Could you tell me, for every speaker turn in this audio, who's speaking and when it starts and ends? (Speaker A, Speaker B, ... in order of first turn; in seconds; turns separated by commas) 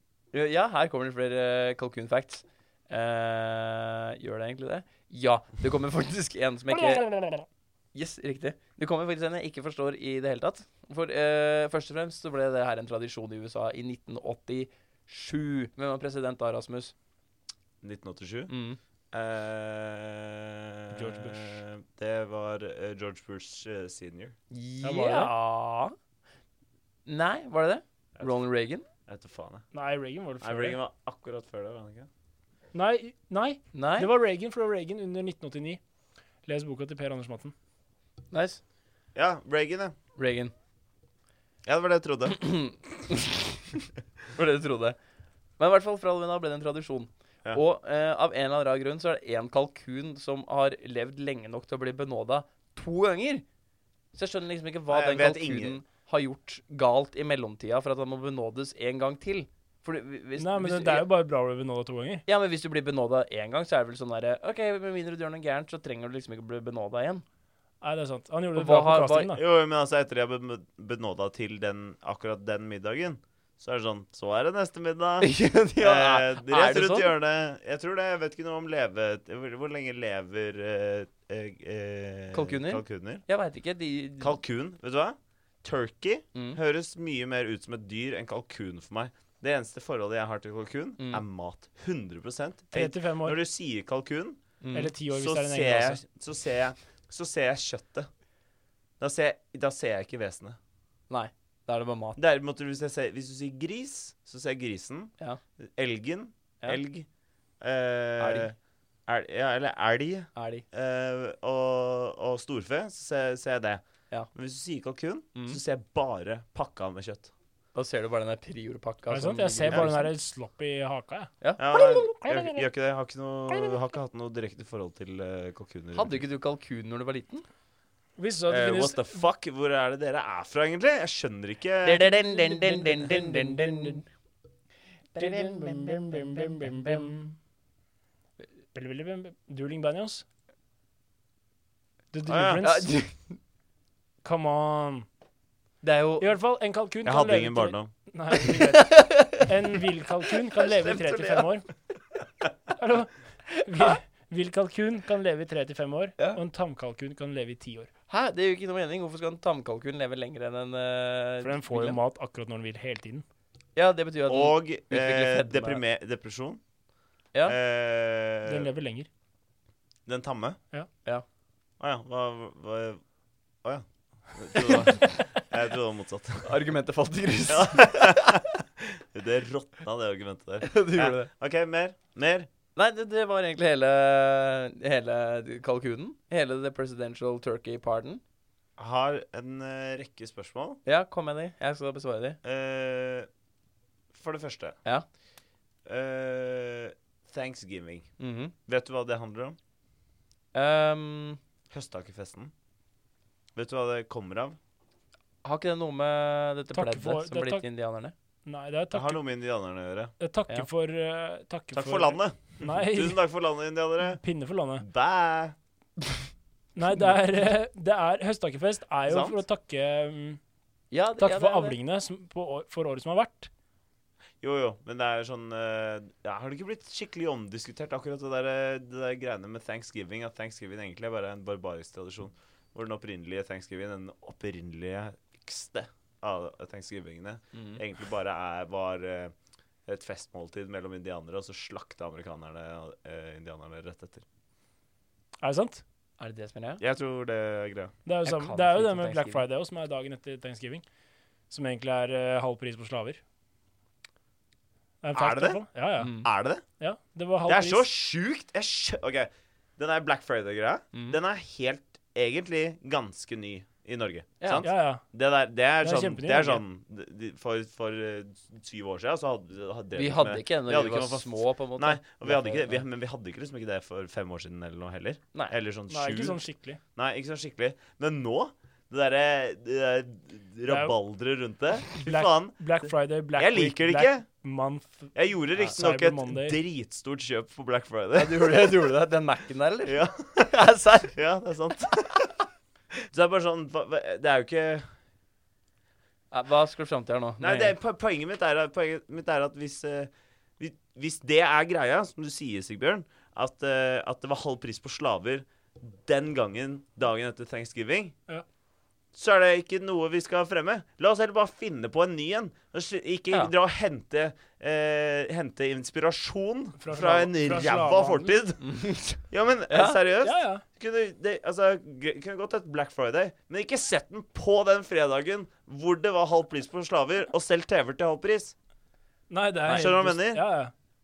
Speaker A: 0.3-7.1, Speaker A: 7.9-16.9, Speaker B: 17.8-18.5, Speaker A: 18.5-18.8, Speaker B: 19.1-24.4, Speaker C: 20.9-21.6, Speaker A: 24.5-25.9, Speaker C: 24.8-25.3, Speaker A: 27.1-28.9, Speaker B: 29.1-29.7, Speaker C: 29.7-30.8, Speaker B: 30.4-32.1, Speaker C: 32.7-35.8, Speaker A: 33.7-34.1, Speaker C: 36.5-37.5, Speaker A: 38.3-38.6, Speaker B: 39.1-40.0, Speaker A: 40.2-40.5, Speaker B: 41.7-42.4, Speaker A: 42.3-43.8, Speaker A: 44.4-45.0, Speaker A: 45.6-53.4, Speaker A: 54.1-61.0, Speaker B: 54.9-55.8, Speaker C: 60.4-62.2, Speaker A: 62.3-67.2, Speaker C: 67.8-69.4, Speaker A: 68.5-69.3, Speaker B: 69.3-83.2, Speaker A: 75.2-77.1, Speaker A: 82.3-84.4, Speaker B: 84.2-94.4, Speaker C: 92.7-93.4, Speaker A: 94.6-94.9, Speaker C: 94.7-96.0, Speaker B: 95.1-98.1, Speaker B: 99.0-100.6, Speaker A: 101.1-102.2, Speaker B: 102.2-107.1, Speaker B: 107.6-108.6, Speaker A: 108.2-108.5, Speaker B: 109.1-117.3, Speaker A: 110.3-110.7, Speaker A: 117.7-120.1, Speaker C: 119.1-121.3, Speaker B: 119.7-119.9, Speaker B: 121.6-126.2, Speaker A: 125.9-127.5, Speaker C: 128.2-129.2, Speaker B: 128.5-132.1, Speaker A: 131.8-134.1, Speaker C: 132.5-134.0, Speaker A: 135.1-137.2, Speaker C: 135.2-137.1, Speaker C: 138.7-140.2, Speaker C: 142.1-142.9, Speaker B: 142.3-142.6, Speaker A: 142.6-143.4, Speaker C: 144.2-145.1, Speaker A: 145.8-146.3, Speaker C: 146.2-151.7, Speaker B: 147.1-147.9, Speaker A: 148.4-149.5, Speaker A: 150.3-151.5, Speaker C: 152.8-157.9, Speaker A: 158.1-162.0, Speaker C: 161.4-163.2, Speaker A: 163.8-165.8, Speaker B: 164.3-166.6, Speaker B: 167.4-168.7, Speaker C: 168.5-169.1, Speaker B: 170.1-170.6, Speaker B: 171.8-173.0, Speaker B: 173.6-176.5, Speaker A: 174.6-175.2, Speaker A: 176.4-178.3, Speaker B: 177.5-182.5, Speaker A: 180.6-181.3, Speaker A: 182.8-188.2, Speaker B: 188.8-190.8, Speaker A: 190.8-192.4, Speaker B: 192.4-193.3, Speaker B: 194.1-194.8, Speaker B: 195.9-198.1, Speaker A: 198.2-198.5, Speaker B: 198.7-199.6, Speaker A: 200.5-201.4, Speaker B: 201.7-202.5, Speaker B: 203.6-204.6, Speaker A: 205.4-208.1, Speaker C: 206.7-207.7, Speaker C: 208.5-209.2, Speaker B: 208.9-210.1, Speaker C: 210.2-213.2, Speaker B: 211.7-214.2, Speaker C: 214.1-214.8, Speaker B: 214.8-215.6, Speaker C: 216.8-220.4, Speaker B: 219.1-219.3, Speaker A: 220.9-221.8, Speaker C: 221.2-223.5, Speaker B: 224.4-239.3, Speaker A: 237.5-237.8, Speaker B: 239.9-244.2, Speaker C: 245.4-245.8, Speaker A: 246.2-246.8, Speaker B: 246.8-247.9, Speaker C: 248.1-250.8, Speaker A: 248.2-249.4, Speaker C: 251.5-253.2, Speaker C: 255.0-256.2, Speaker B: 255.1-255.6, Speaker A: 256.0-256.3, Speaker B: 256.2-256.6, Speaker C: 256.8-257.9, Speaker B: 257.5-276.4, Speaker A: 264.4-264.7, Speaker C: 264.6-265.0, Speaker C: 265.8-266.6, Speaker A: 269.9-272.9, Speaker C: 275.9-276.8, Speaker B: 276.9-282.6, Speaker C: 280.7-280.9, Speaker C: 281.9-286.6, Speaker B: 283.4-284.2, Speaker B: 285.1-288.8, Speaker A: 288.1-291.1, Speaker B: 289.9-290.5, Speaker B: 291.1-292.4, Speaker B: 293.1-294.9, Speaker A: 296.3-297.8, Speaker B: 297.4-308.1, Speaker B: 309.1-328.5, Speaker C: 316.8-318.4, Speaker A: 318.6-320.0, Speaker C: 320.2-320.6, Speaker C: 329.3-330.7, Speaker A: 329.6-329.9, Speaker B: 329.7-330.4